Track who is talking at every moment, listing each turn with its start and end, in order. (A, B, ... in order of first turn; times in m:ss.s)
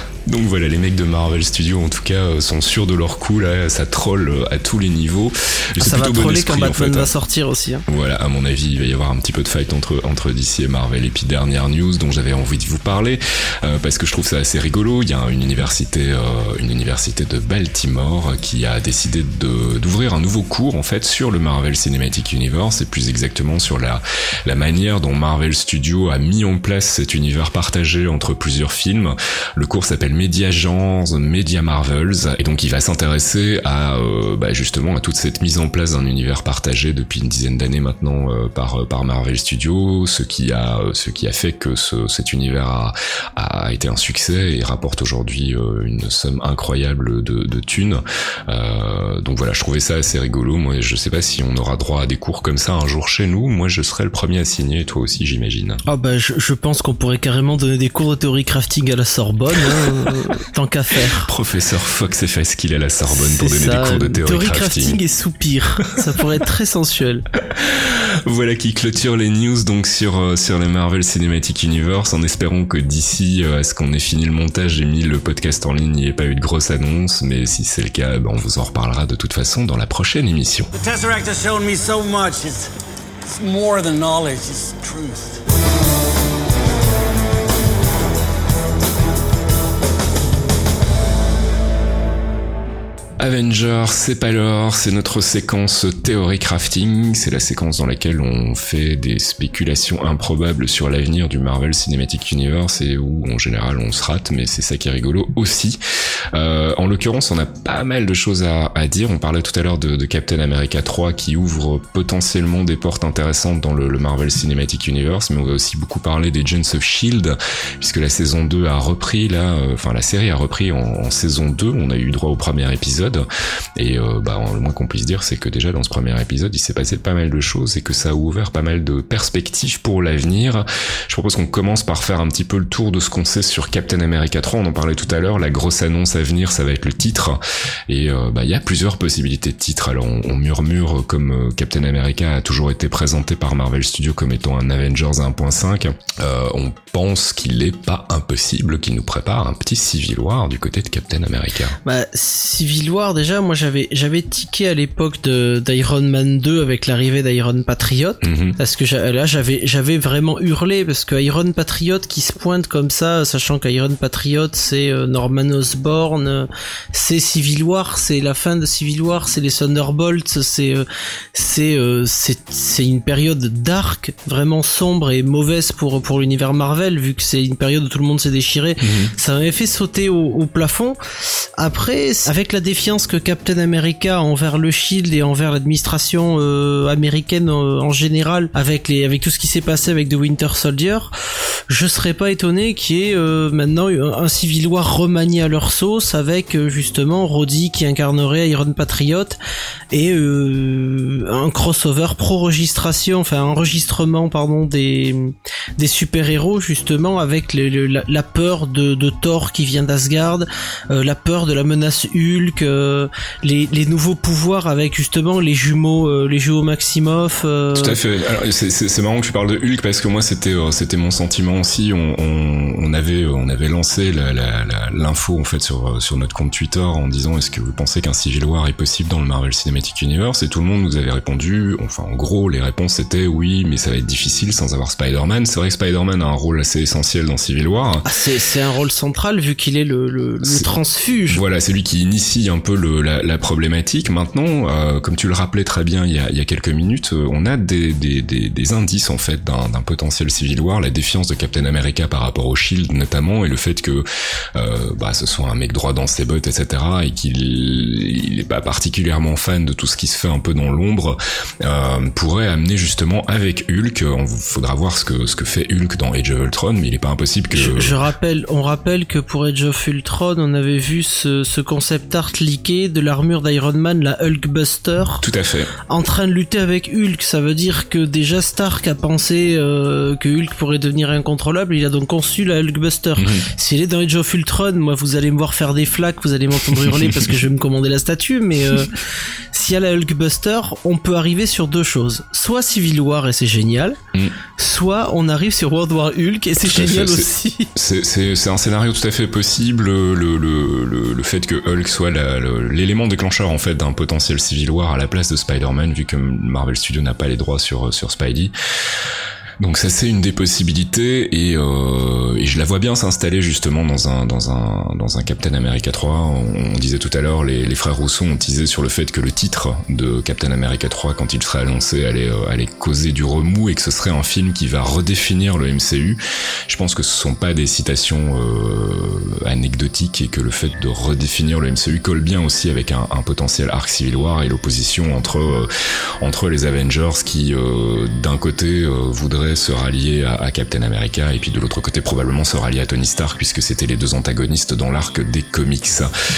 0:00.3-0:07.1 A
0:05.8-0:07.8 B
0:07.9-0:55.8 A
0:55.9-1:01.3 B
1:01.1-1:05.0 A
1:03.1-1:07.2 B
1:07.6-1:20.7 A
1:20.7-1:22.7 C
1:23.3-1:25.4 C
1:33.2-1:45.8 A
1:46.3-2:03.2 A
2:03.8-2:31.8 A
2:31.8-3:01.0 B
2:38.2-2:38.6 A
2:58.8-2:59.1 A
3:01.6-3:11.1 B
3:11.7-3:19.4 B
3:19.9-3:38.0 B
3:37.8-3:58.0 A
3:58.0-4:01.4 B
4:01.3-4:28.0 A
4:27.5-4:35.2 B
4:35.2-4:35.7 A
4:35.9-4:49.0 B
4:43.2-4:43.4 A
4:46.7-4:47.3 A
4:49.5-4:54.0 B
4:54.6-4:57.7 B
4:56.6-5:08.5 A
5:09.6-5:35.7 A
5:36.2-5:46.1 A